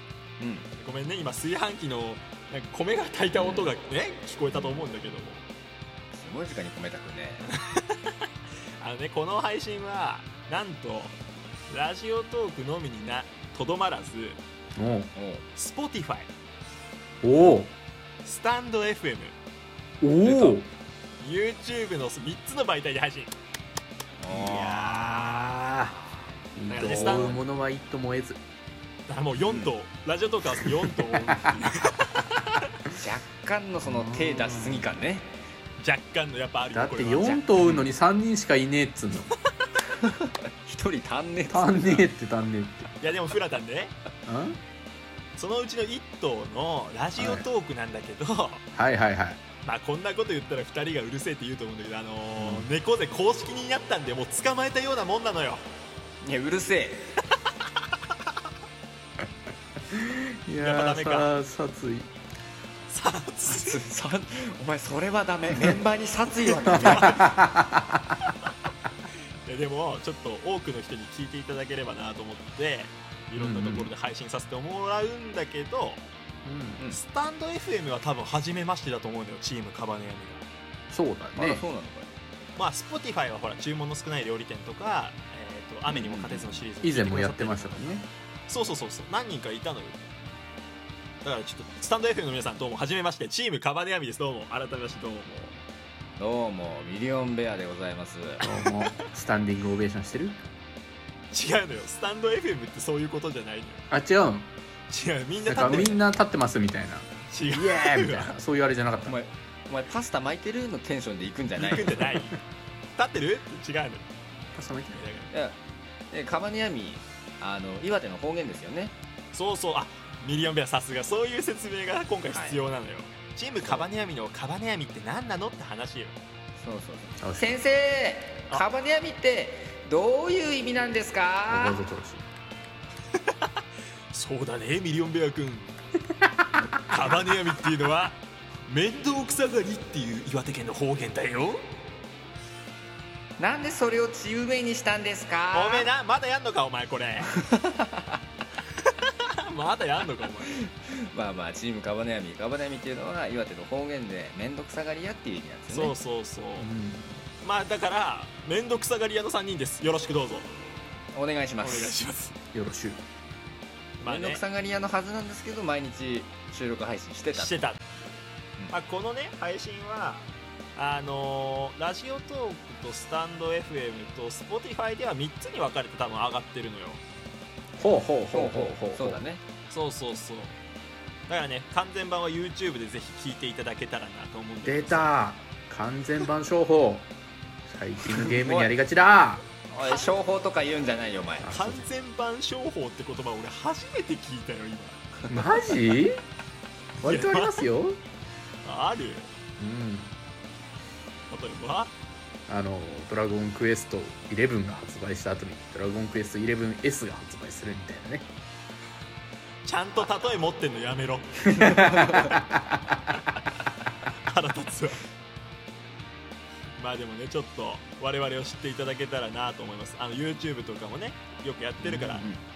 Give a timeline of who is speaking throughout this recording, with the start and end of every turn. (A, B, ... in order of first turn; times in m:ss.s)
0:00.4-0:00.7 A
0:00.8-0:05.4 B
0:03.4-0:03.7 A
0:06.1-0:07.5 A
0:07.5-0:08.2 B
0:08.8-0:11.2 B
0:11.7-0:14.4 B
0:14.8-0:15.1 C
0:15.2-0:15.4 A
0:15.6-0:16.3 B
0:17.2-0:17.7 C
0:18.2-0:19.4 B
0:20.0-0:20.7 C
0:20.2-0:20.6 A
0:21.2-0:23.3 B
0:24.2-0:25.1 A
0:24.3-0:26.0 B
0:26.6-0:28.4 C
0:26.7-0:27.4 B
0:26.8-0:27.4 A
0:29.1-0:32.7 B
0:29.4-0:29.7 A
0:31.3-0:31.5 C
0:32.9-0:35.3 A
0:33.8-0:34.9 C
0:35.8-0:37.4 B
0:36.7-0:39.3 C
0:37.2-0:37.9 A
0:40.0-0:42.1 A
0:41.5-0:42.9 C
0:43.0-0:43.9 B
0:44.3-0:44.6 C
0:45.4-0:48.6 B
0:47.2-0:47.4 C
0:48.7-0:49.4 C
0:49.6-0:55.6 B
0:52.4-0:52.7 C
0:56.2-0:57.2 A
0:59.9-1:02.1 C
1:00.6-1:01.3 B
1:02.9-1:03.8 B
1:03.5-1:07.3 A
1:06.6-1:08.1 C
1:06.7-1:07.3 B
1:09.4-1:16.0 B
1:13.4-1:13.9 C
1:16.4-1:16.8 C
1:16.9-1:20.4 B
1:20.9-1:21.6 C
1:21.4-1:22.1 A
1:22.6-1:30.2 B
1:25.9-1:26.6 A
1:26.8-1:28.1 C
1:31.2-1:35.3 B
1:36.2-1:38.4 A
1:38.4-1:40.4 C
1:38.4-1:38.9 B
1:41.3-1:43.8 B
1:43.9-1:44.5 C
1:44.9-1:46.0 B
1:45.5-1:49.2 C
1:45.6-1:46.0 A
1:47.3-1:48.4 B
1:49.0-1:52.1 A
1:51.6-1:52.4 B
1:53.0-1:54.1 B
1:54.6-1:55.0 C
1:54.9-1:55.3 B
1:55.3-1:55.6 A
1:56.1-1:58.9 A
1:59.3-2:06.2 B
2:02.3-2:02.6 A
2:06.6-2:11.9 A
2:07.2-2:07.6 C
2:11.5-2:12.3 C
2:14.1-2:15.8 B
2:16.9-2:21.6 B
2:23.4-2:25.9 A
2:25.5-2:27.4 B
2:27.4-2:28.2 A
2:28.8-2:30.6 B
2:30.8-2:36.0 A
2:35.7-2:36.7 B
2:36.6-2:37.2 C
2:37.4-2:40.5 B
2:41.1-2:42.0 A
2:41.6-2:42.4 B
2:42.5-2:43.0 C
2:44.0-2:44.4 B
2:44.0-2:47.6 A
2:47.3-2:47.9 B
2:48.7-2:57.0 B
2:57.8-2:59.2 C
2:58.3-2:59.4 A
2:59.7-3:00.6 B
3:01.3-3:05.1 B
3:04.6-3:07.1 C
3:07.7-3:09.4 C
3:08.2-3:08.7 A
3:09.7-3:11.6 A
3:11.4-3:11.9 C
3:11.4-3:15.0 B
3:15.3-3:16.2 C
3:17.0-3:18.0 C
3:17.0-3:17.6 B
3:18.6-3:19.3 B
3:19.6-3:20.1 C
3:21.3-3:21.9 B
3:22.5-3:28.3 C
3:29.6-3:32.4 B
3:31.5-3:32.6 C
3:34.3-3:35.0 B
3:36.8-3:42.3 B
3:41.8-3:42.4 A